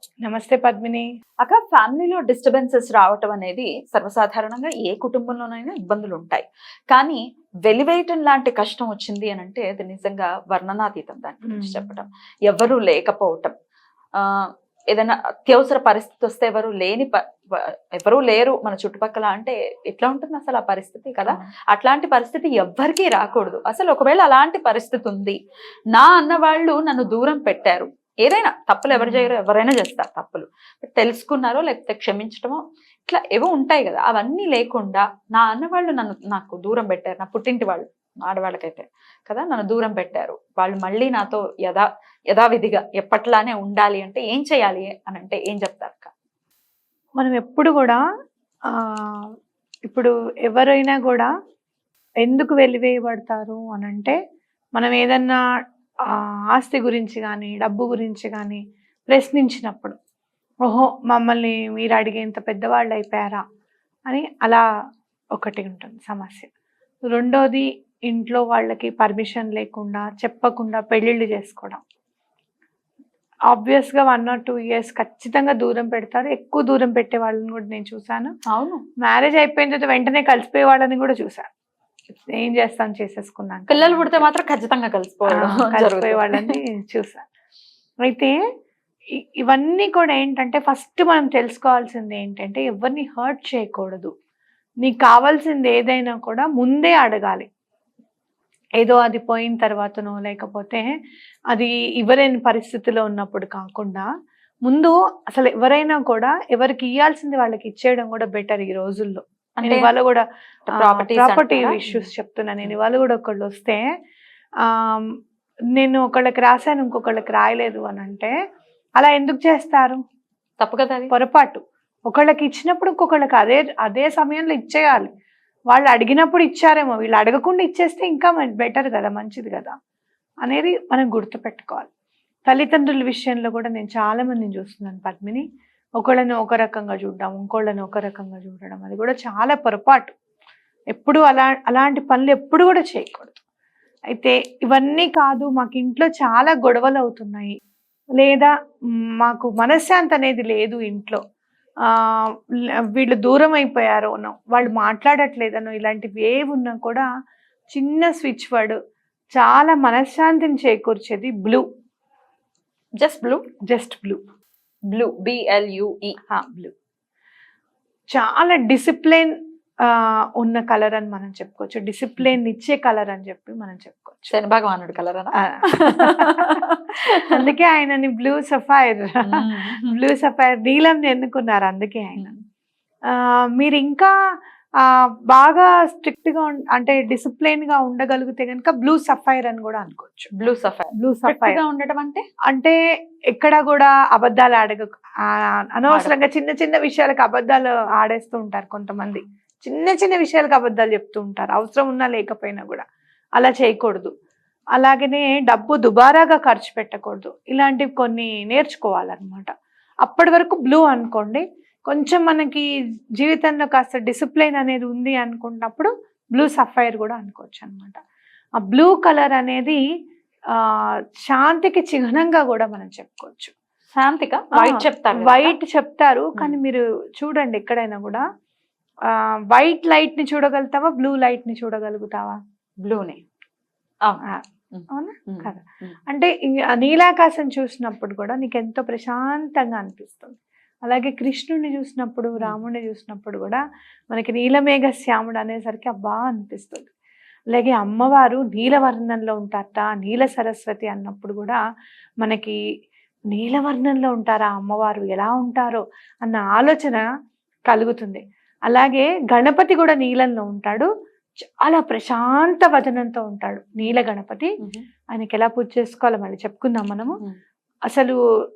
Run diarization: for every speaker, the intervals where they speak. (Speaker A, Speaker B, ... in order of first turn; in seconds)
Speaker A: 0.2-1.1, 11.5-11.9, 28.9-29.3, 47.2-48.0, 48.7-49.2, 49.9-51.3, 52.2-54.2, 54.8-55.4, 56.1-60.0, 60.7-63.4, 64.1-64.6, 65.3-66.5, 67.1-71.8, 73.5-78.3, 79.0-81.5, 82.1-84.3, 85.3-87.2, 88.0-88.3, 89.2-94.1, 94.8-97.5, 98.8-100.9, 101.5-104.1, 104.7-113.8, 114.6-115.1, 115.8-118.3, 119.0-120.0, 121.1-125.1, 125.7-129.8, 130.4-131.9, 132.5-135.4, 136.0-140.1, 140.9-143.4, 144.1-147.6, 148.2-148.5, 149.2-151.2, 151.9-152.3, 152.9-157.1, 157.7-158.8, 159.3-161.7, 163.7-164.2, 166.3-166.7, 168.1-174.3, 175.3-176.6, 177.3-182.3, 183.1-184.1, 184.8-190.3, 191.0-191.6, 192.5-192.8, 193.3-202.8, 203.4-204.1, 204.8-209.5, 210.1-212.7, 213.2-218.0, 218.6-219.8, 220.6-223.5, 224.6-228.2, 229.1-232.4, 234.2-246.9, 247.5-251.6, 252.2-252.6, 253.3-257.1, 257.7-260.9, 261.4-264.6, 265.1-267.2, 267.9-268.2
Speaker B: 1.4-13.5, 14.2-25.4, 25.9-46.1, 78.5-78.8, 83.7-86.5, 109.6-109.9, 110.7-112.1, 120.6-121.1, 163.0-163.4, 164.9-166.2, 174.3-177.5, 179.2-180.0, 190.3-192.2, 195.9-196.2, 223.9-225.6, 232.8-233.2, 234.0-236.0